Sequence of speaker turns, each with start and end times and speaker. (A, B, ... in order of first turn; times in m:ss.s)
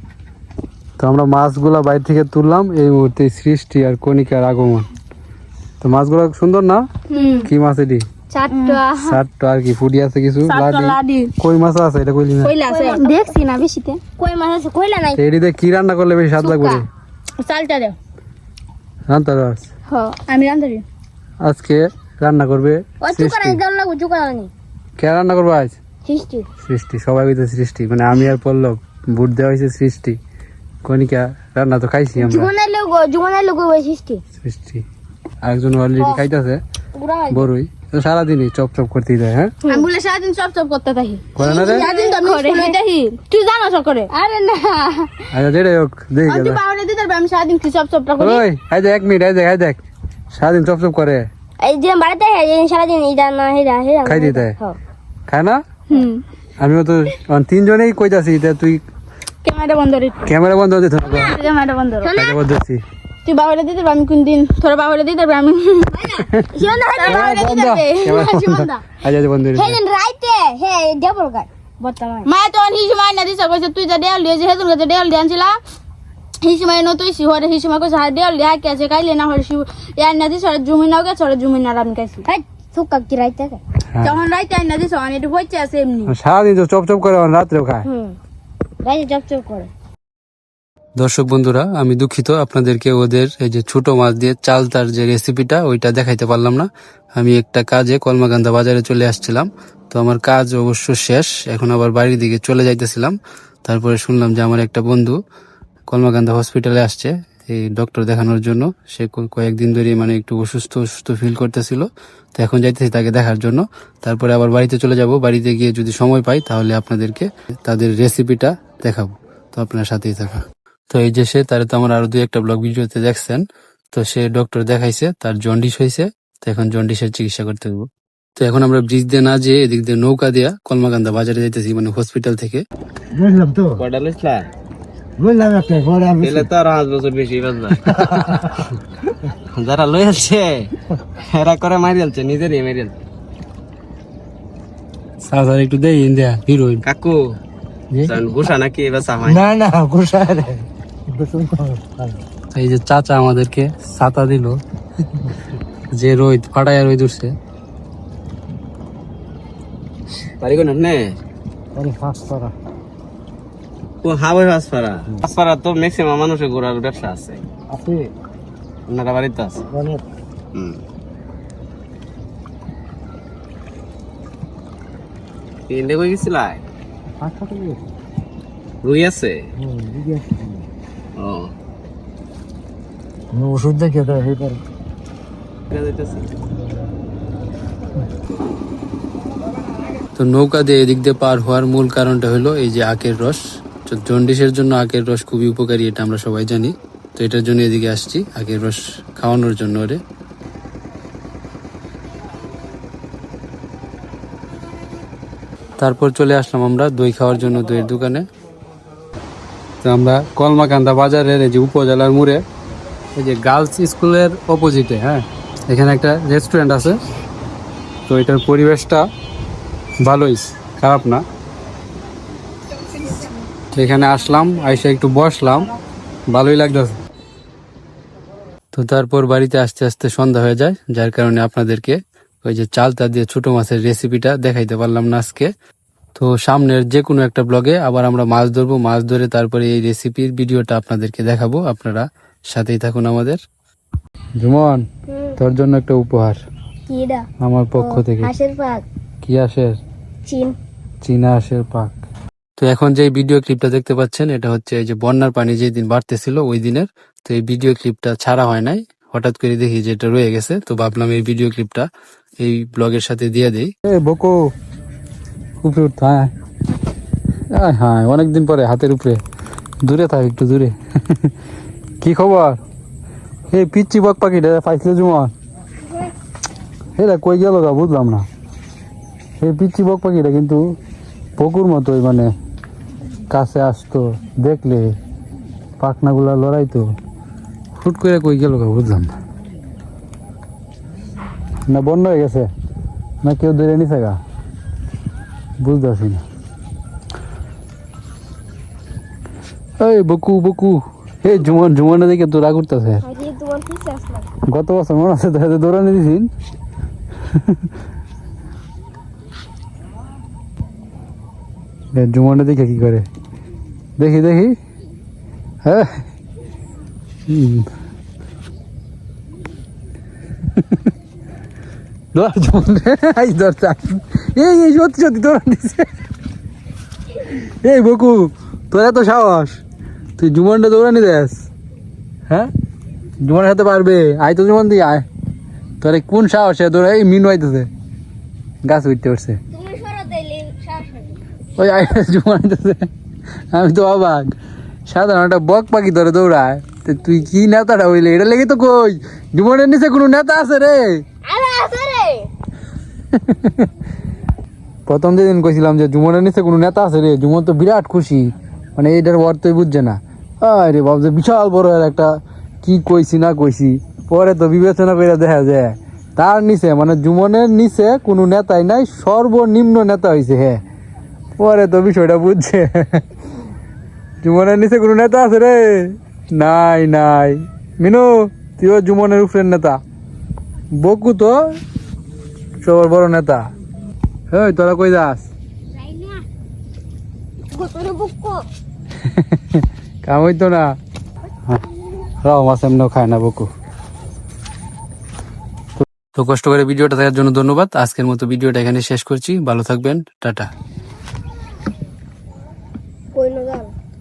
0:01.0-0:04.9 A
0:05.8-0:06.9 A
0:07.1-0:07.5 B
0:07.2-0:07.5 C
0:07.4-0:08.1 A
0:08.3-0:08.9 C
0:08.5-0:09.0 B
0:09.0-0:12.5 A
0:10.4-0:11.3 B
0:12.4-0:14.0 B
0:12.6-0:13.4 C
0:14.2-0:15.2 C
0:15.2-0:16.9 A
0:16.4-0:16.8 C
0:17.4-0:18.0 B
0:19.1-0:19.7 A
0:19.9-0:20.8 B
0:21.4-0:23.6 A
0:23.0-0:24.5 C
0:25.0-0:25.8 A
0:26.0-0:26.5 C
0:26.6-0:30.2 A
0:30.8-0:32.5 A
0:32.2-0:34.2 C
0:34.4-0:34.8 A
0:35.4-0:36.6 A
0:36.0-0:36.2 C
0:36.9-0:37.5 C
0:37.3-0:39.5 A
0:39.6-0:39.9 C
0:39.7-0:44.1 B
0:41.4-0:41.9 A
0:41.4-0:42.8 C
0:44.1-0:45.3 C
0:45.3-0:46.6 A
0:46.3-0:48.4 B
0:48.2-0:49.8 A
0:50.3-0:51.3 A
0:51.6-0:54.8 C
0:54.0-0:54.6 A
0:55.3-0:55.6 A
0:55.9-0:56.2 B
0:56.6-0:58.8 A
0:59.4-1:00.3 B
1:00.2-1:01.4 A
1:01.1-1:01.4 C
1:01.2-1:02.1 B
1:02.0-1:02.4 C
1:02.2-1:02.8 A
1:03.3-1:06.0 B
1:06.0-1:07.4 C
1:07.0-1:08.4 B
1:07.0-1:09.8 A
1:08.1-1:08.8 C
1:09.6-1:12.3 C
1:12.2-1:15.6 B
1:16.4-1:22.2 B
1:22.2-1:23.6 C
1:24.0-1:26.1 B
1:26.1-1:27.9 A
1:27.8-1:28.2 C
1:28.8-1:29.7 C
1:31.0-1:45.2 A
1:45.9-2:12.6 A
2:13.2-2:13.8 D
2:13.8-2:14.5 E
2:15.2-2:16.5 D
2:16.2-2:18.3 E
2:19.5-2:20.7 E
2:21.2-2:22.9 E
2:25.2-2:26.8 A
2:26.8-2:27.2 E
2:28.0-2:29.5 E
2:29.2-2:32.2 D
2:32.5-2:34.6 A
2:35.9-2:37.3 A
2:40.4-2:41.2 E
2:41.8-2:42.5 D
2:44.0-2:47.4 E
2:47.7-2:48.1 D
2:48.9-2:49.6 E
2:49.7-2:50.0 D
2:55.7-2:56.6 E
2:57.2-2:57.8 D
2:58.8-2:59.4 E
2:59.6-3:00.7 D
3:01.2-3:01.5 E
3:03.3-3:04.6 D
3:05.7-3:06.3 E
3:10.2-3:20.0 A
3:25.8-3:28.3 A
3:29.8-3:32.4 A
3:33.2-3:37.0 A
3:38.1-3:39.0 A
3:40.0-3:41.2 A
3:43.8-3:45.7 A
3:46.3-3:47.0 A
3:48.7-3:55.5 A
3:56.2-4:03.4 A
4:04.4-4:04.8 A
4:05.1-4:05.4 C
4:05.4-4:06.4 A
4:06.9-4:08.8 C
4:07.4-4:08.3 A
4:09.2-4:09.8 A
4:10.3-4:10.6 C
4:11.0-4:12.0 A
4:12.6-4:21.9 A
4:22.4-4:24.5 A
4:25.6-4:26.3 A
4:27.5-4:29.2 A
4:29.8-4:31.3 A
4:32.0-4:32.6 A
4:33.5-4:35.3 A
4:35.8-4:36.1 C
4:37.0-4:38.3 A
4:39.4-4:40.7 A
4:41.4-4:42.3 A
4:43.3-4:45.0 A
4:45.8-4:46.8 A
4:47.8-4:49.1 A
4:51.7-4:52.5 A
4:53.2-4:54.2 A
4:55.6-4:56.2 A
4:59.8-5:03.0 A
5:03.0-5:04.3 C
5:04.5-5:06.3 A
5:11.9-5:13.1 A
5:14.0-5:14.6 A
5:15.6-5:16.0 A
5:17.3-5:17.7 A
5:22.2-5:25.9 A
5:27.2-5:29.6 A
5:30.2-5:31.5 A
5:33.2-5:35.1 A
5:35.8-5:37.7 A
5:38.6-5:39.4 A
5:39.5-5:41.2 C
5:41.6-5:42.9 A
5:43.5-5:44.3 A
5:44.9-5:51.0 A
5:51.2-5:52.3 C
5:53.3-5:53.5 A
5:54.9-6:10.6 A
6:11.4-6:13.0 A
6:14.2-6:19.8 A
6:20.8-6:21.4 A
6:22.6-6:23.4 A
6:24.3-6:25.3 A
6:25.8-6:26.2 C
6:27.5-6:28.4 C
6:29.0-6:30.7 A
6:32.2-6:33.5 A
6:35.8-6:40.5 A
6:43.1-6:43.7 C